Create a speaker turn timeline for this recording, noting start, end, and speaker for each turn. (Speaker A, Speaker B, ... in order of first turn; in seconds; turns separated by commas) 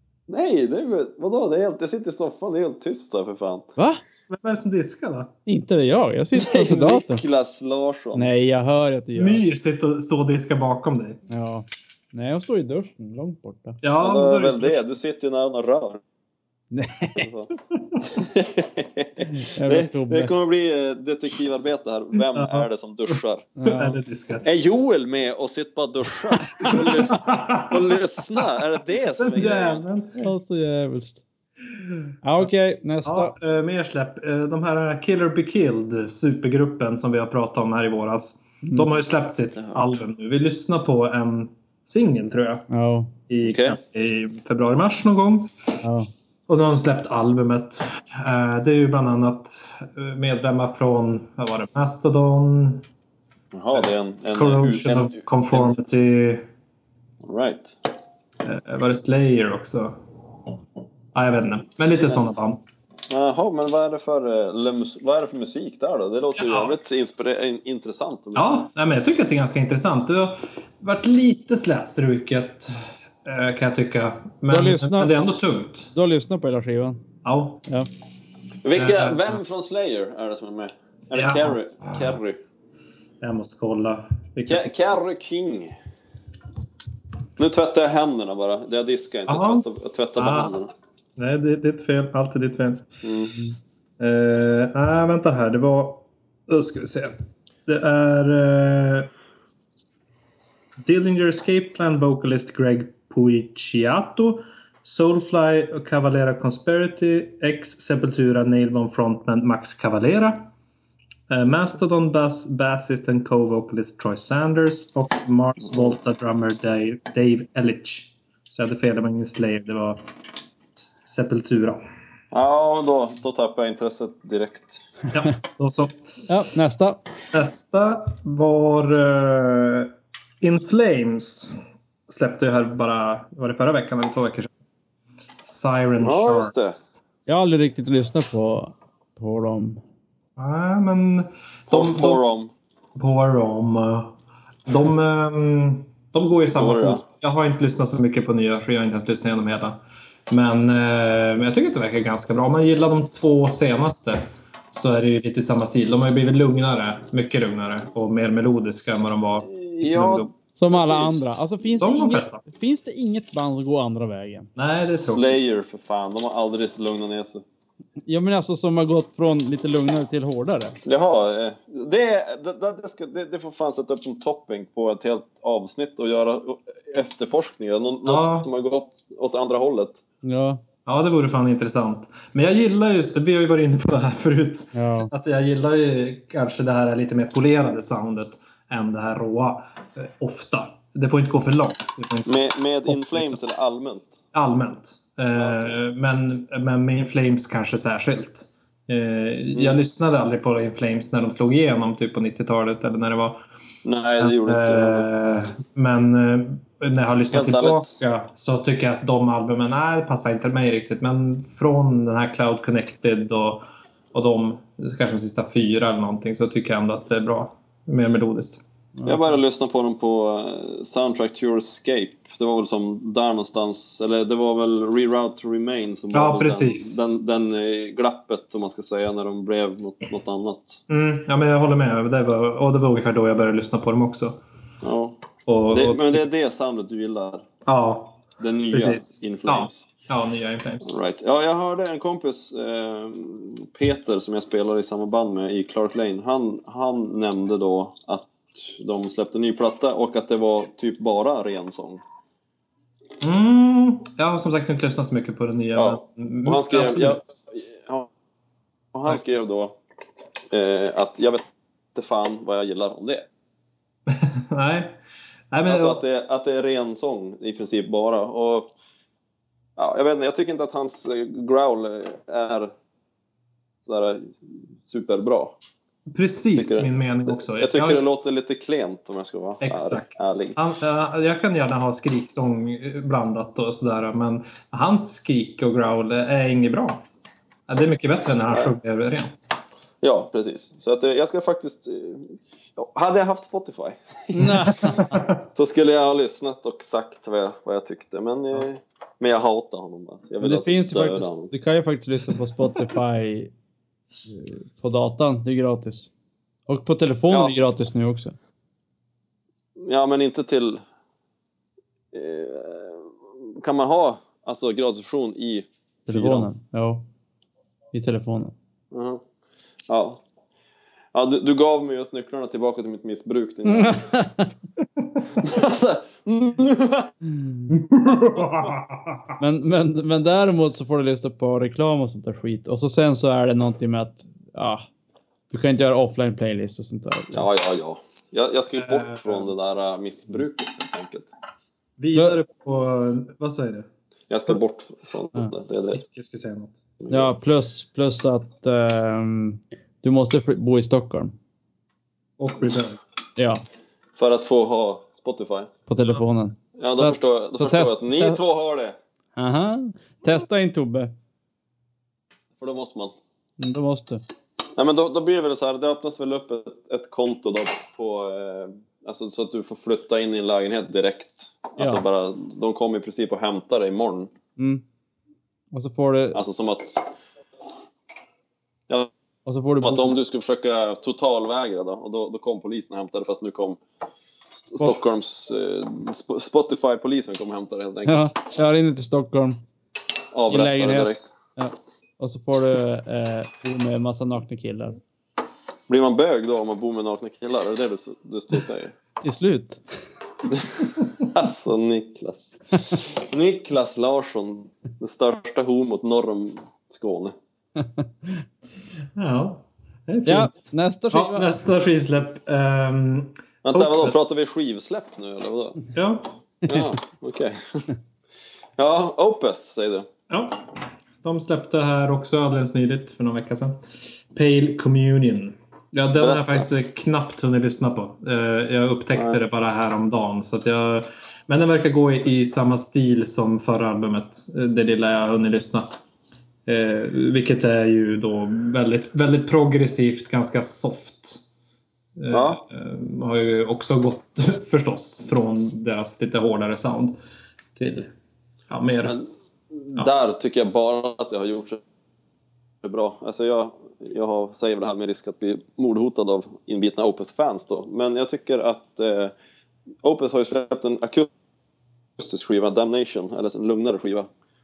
Speaker A: 0.3-3.7, Speaker B: 4.3-5.3, Speaker C: 5.5-7.2, Speaker A: 6.3-8.3, Speaker C: 8.1-9.4, Speaker B: 9.2-11.2, Speaker C: 11.3-13.8, Speaker B: 13.8-14.9, Speaker A: 14.0-16.0, Speaker C: 16.7-17.3, Speaker A: 17.2-17.5, Speaker A: 18.0-23.5, Speaker C: 19.3-20.3, Speaker B: 22.3-22.7, Speaker C: 23.6-24.0, Speaker B: 23.6-24.5, Speaker A: 24.4-29.8, Speaker B: 26.6-28.4, Speaker B: 29.2-30.3, Speaker C: 30.2-31.2, Speaker C: 32.2-33.4, Speaker B: 33.0-42.7, Speaker C: 42.7-43.1, Speaker B: 43.3-45.5, Speaker A: 43.4-43.8, Speaker C: 45.8-46.1, Speaker B: 46.5-52.9, Speaker A: 53.5-55.8, Speaker B: 53.7-56.5, Speaker A: 57.2-57.8, Speaker B: 58.4-60.0, Speaker B: 61.1-62.6, Speaker A: 63.1-68.6, Speaker B: 66.3-66.8, Speaker B: 68.3-75.9, Speaker C: 74.5-75.2, Speaker C: 75.9-77.0, Speaker B: 77.2-77.6, Speaker A: 78.6-82.4, Speaker B: 78.8-79.4, Speaker B: 81.1-82.2, Speaker B: 83.2-84.8, Speaker A: 84.5-85.8, Speaker A: 87.4-90.7, Speaker B: 89.3-90.6, Speaker B: 91.2-92.9, Speaker A: 93.0-93.4, Speaker B: 94.0-97.1, Speaker B: 97.7-99.1, Speaker B: 100.8-110.5, Speaker B: 111.3-120.0, Speaker B: 121.0-121.8, Speaker A: 122.3-124.9, Speaker B: 125.1-126.2, Speaker C: 126.3-127.0, Speaker B: 127.3-131.6, Speaker B: 132.1-134.5, Speaker B: 135.4-137.0, Speaker A: 136.0-136.8, Speaker C: 137.3-139.8, Speaker B: 140.4-142.2, Speaker A: 141.7-142.5, Speaker B: 143.0-144.2, Speaker B: 144.7-160.3, Speaker A: 146.5-147.0, Speaker A: 159.5-161.2, Speaker C: 160.6-164.5, Speaker B: 161.7-162.4, Speaker B: 164.6-165.4, Speaker A: 164.9-167.4, Speaker C: 168.1-170.8, Speaker A: 170.9-180.0, Speaker B: 178.1-178.5, Speaker C: 180.2-180.6, Speaker B: 180.9-193.4, Speaker C: 184.7-185.1, Speaker A: 192.3-194.2, Speaker B: 194.3-203.4, Speaker A: 195.4-195.7, Speaker A: 199.5-199.8, Speaker A: 203.8-205.1, Speaker B: 204.2-218.6, Speaker A: 207.3-207.9, Speaker C: 219.0-219.3, Speaker A: 219.1-230.8, Speaker B: 226.1-227.1, Speaker B: 230.9-234.4, Speaker A: 234.8-237.5, Speaker B: 235.5-236.3, Speaker B: 237.7-240.9, Speaker A: 238.4-239.8, Speaker A: 240.8-252.0, Speaker B: 253.2-257.2, Speaker A: 255.8-258.1, Speaker A: 258.9-259.8, Speaker A: 260.5-263.3, Speaker B: 264.1-265.0, Speaker B: 265.5-266.0, Speaker A: 265.7-268.7, Speaker A: 269.8-272.7, Speaker A: 273.8-275.6, Speaker B: 276.1-278.0, Speaker A: 276.6-280.6, Speaker B: 279.6-287.0, Speaker B: 287.7-289.4, Speaker A: 290.0-301.5, Speaker C: 294.3-295.2, Speaker B: 295.1-295.4, Speaker C: 300.4-303.5, Speaker C: 304.3-306.1, Speaker C: 306.7-308.4, Speaker A: 309.8-310.8, Speaker A: 312.1-316.5, Speaker C: 316.1-317.1, Speaker C: 317.9-318.5, Speaker A: 318.9-319.2, Speaker A: 319.9-320.2, Speaker A: 321.1-324.1, Speaker C: 323.7-324.5, Speaker A: 325.4-327.1, Speaker B: 327.7-329.4, Speaker C: 329.4-334.9, Speaker C: 335.5-337.5, Speaker A: 337.3-341.3, Speaker B: 338.8-339.5, Speaker B: 342.0-343.9, Speaker A: 344.3-346.0, Speaker B: 345.9-346.9, Speaker A: 347.0-347.3, Speaker C: 347.1-351.3, Speaker B: 352.4-353.0, Speaker C: 353.4-353.6, Speaker A: 354.2-355.7, Speaker C: 355.9-358.4, Speaker A: 356.8-359.0, Speaker C: 359.4-361.1, Speaker A: 362.6-363.1, Speaker C: 363.6-364.2, Speaker A: 364.8-374.3, Speaker C: 371.8-372.0, Speaker C: 374.6-374.8, Speaker C: 375.7-376.4, Speaker A: 376.4-377.1, Speaker C: 379.5-380.1, Speaker A: 379.8-383.8, Speaker A: 384.5-388.3, Speaker C: 388.1-389.6, Speaker A: 390.3-391.3, Speaker C: 390.5-395.0, Speaker A: 395.9-398.9, Speaker C: 399.2-399.8, Speaker A: 400.5-407.3, Speaker C: 407.8-408.4, Speaker B: 409.2-414.2, Speaker C: 410.3-411.5, Speaker A: 413.6-415.8, Speaker B: 415.9-416.3, Speaker A: 416.7-417.9, Speaker A: 418.8-420.1, Speaker B: 420.3-436.0, Speaker A: 426.1-426.7, Speaker A: 429.1-429.4, Speaker B: 436.7-441.4, Speaker B: 442.2-447.2, Speaker A: 442.3-442.6, Speaker B: 447.8-448.1, Speaker B: 448.7-449.2, Speaker A: 449.1-451.8, Speaker A: 452.8-459.3, Speaker A: 460.0-461.3, Speaker A: 462.2-464.3